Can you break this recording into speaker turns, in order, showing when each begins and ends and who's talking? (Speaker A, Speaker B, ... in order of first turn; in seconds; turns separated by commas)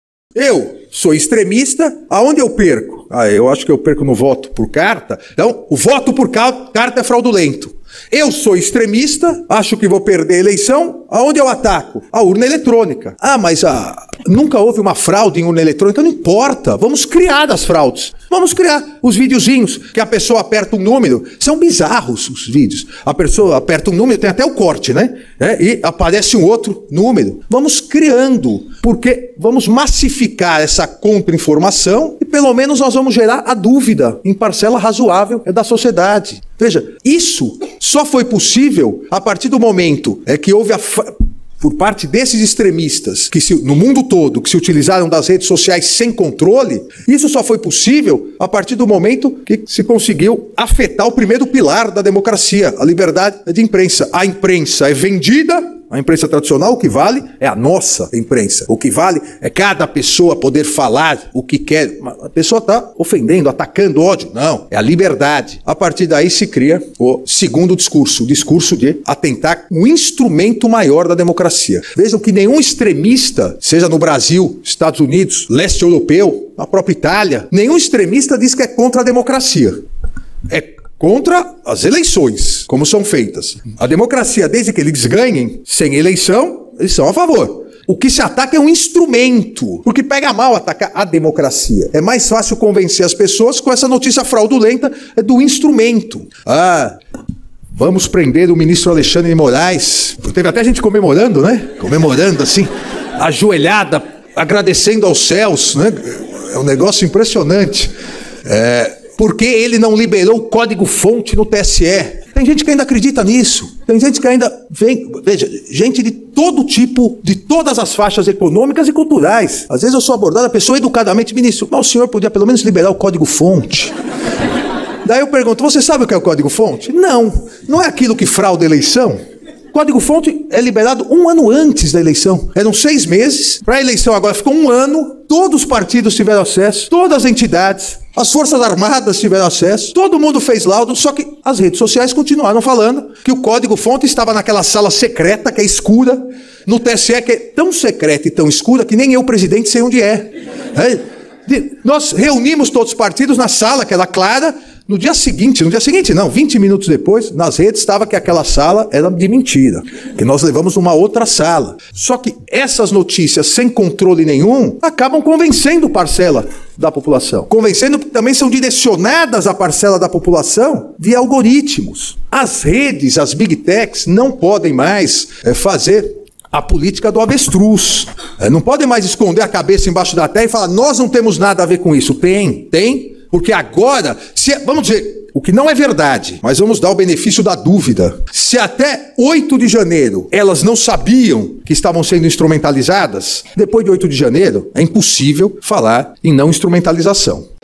Speaker A: 0.3-79.8, Speaker A: 80.5-97.0, Speaker A: 97.8-107.9, Speaker A: 108.5-123.9, Speaker A: 125.0-129.2, Speaker A: 129.7-197.5